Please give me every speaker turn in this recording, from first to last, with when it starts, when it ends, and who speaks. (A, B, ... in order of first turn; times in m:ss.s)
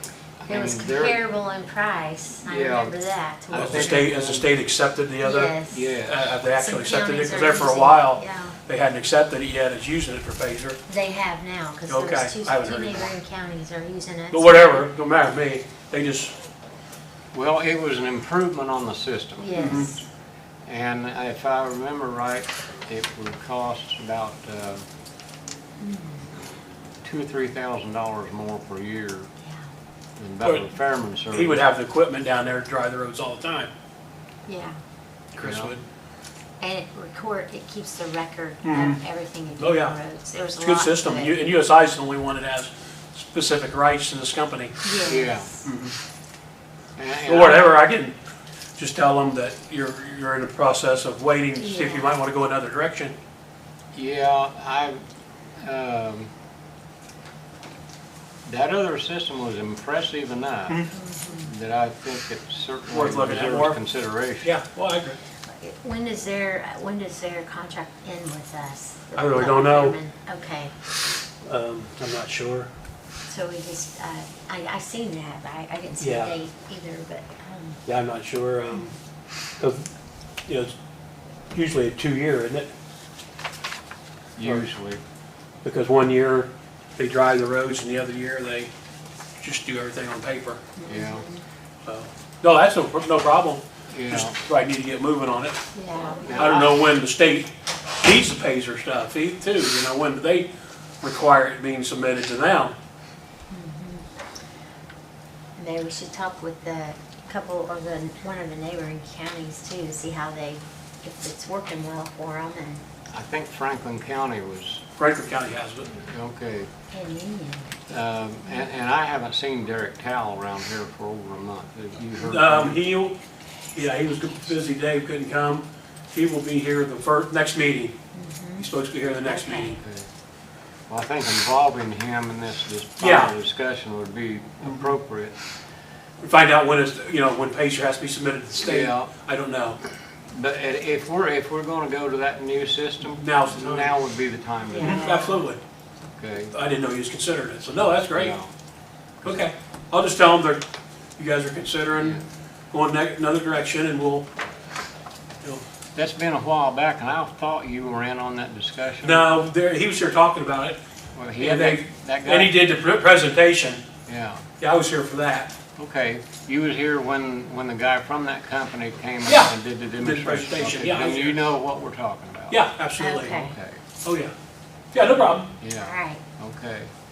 0:00.4-0:01.2 A
0:00.5-0:04.0 B
0:02.5-0:04.5 A
0:03.5-0:10.8 C
0:05.2-0:06.0 B
0:05.7-0:06.4 A
0:06.5-0:08.6 B
0:10.9-0:14.9 B
0:11.9-0:13.2 C
0:14.3-0:16.3 C
0:17.3-0:19.9 A
0:19.4-0:20.0 B
0:19.6-0:19.9 C
0:20.6-0:24.8 A
0:25.8-0:26.3 B
0:27.0-0:29.3 A
0:30.2-0:31.7 A
0:30.4-0:30.7 C
0:31.3-0:33.7 C
0:34.5-0:34.8 B
0:35.3-0:35.8 C
0:35.4-0:35.7 A
0:36.6-0:41.4 B
0:38.6-0:39.0 C
0:39.6-0:40.0 C
0:40.6-0:44.8 C
0:44.8-0:45.6 B
0:45.0-0:45.6 A
0:45.6-0:46.0 C
0:47.0-0:47.8 A
0:47.2-0:48.2 C
0:48.8-0:53.2 C
0:51.6-0:52.1 B
0:53.9-0:55.0 A
0:55.6-0:56.3 A
0:58.4-1:04.5 A
1:00.9-1:01.5 B
1:02.9-1:03.8 C
1:04.4-1:05.2 C
1:05.5-1:10.7 B
1:09.2-1:10.0 C
1:11.4-1:12.7 C
1:13.3-1:17.8 B
1:16.0-1:16.4 C
1:17.9-1:19.0 C
1:19.6-1:19.9 C
1:20.5-1:20.8 C
1:21.5-1:22.7 C
1:24.4-1:25.0 A
1:25.6-1:28.7 C
1:29.4-1:30.6 C
1:30.8-1:31.4 B
1:30.9-1:31.2 A
1:31.8-1:35.6 C
1:33.9-1:34.4 A
1:35.8-1:36.4 B
1:36.2-1:36.8 A
1:36.3-1:40.5 C
1:41.0-1:42.7 C
1:43.5-1:44.1 B
1:45.6-1:52.8 B
1:53.1-1:54.8 A
1:55.0-1:55.9 C
1:55.8-1:56.7 A
1:56.9-1:57.8 B
1:57.9-2:02.8 A
2:02.2-2:03.2 C
2:03.7-2:08.0 C
2:08.1-2:08.7 B
2:08.6-2:09.8 C
2:09.2-2:09.7 B
2:09.8-2:10.1 A
2:10.9-2:15.4 A
2:13.0-2:13.3 C
2:16.2-2:19.8 C
2:18.6-2:19.1 A
2:20.3-2:25.2 A
2:23.0-2:24.0 C
2:24.7-2:25.5 B
2:24.8-2:25.6 C
2:26.2-2:26.5 A
2:26.5-2:28.3 C
2:28.1-2:28.5 A
2:29.2-2:30.6 C
2:31.2-2:32.2 C
2:32.0-2:32.2 A
2:32.7-2:34.3 C
2:36.0-2:39.3 A
2:39.0-2:40.8 C
2:41.1-2:42.6 A
2:41.4-2:43.8 C
2:44.1-2:44.4 A
2:44.6-2:45.5 C
2:45.8-2:52.7 A
2:49.3-2:51.4 C
2:52.5-2:53.4 C
2:53.0-2:53.5 B
2:53.2-2:53.8 A
2:54.0-2:54.3 C
2:54.9-2:55.5 C
2:55.6-2:56.9 A
2:55.8-2:56.2 B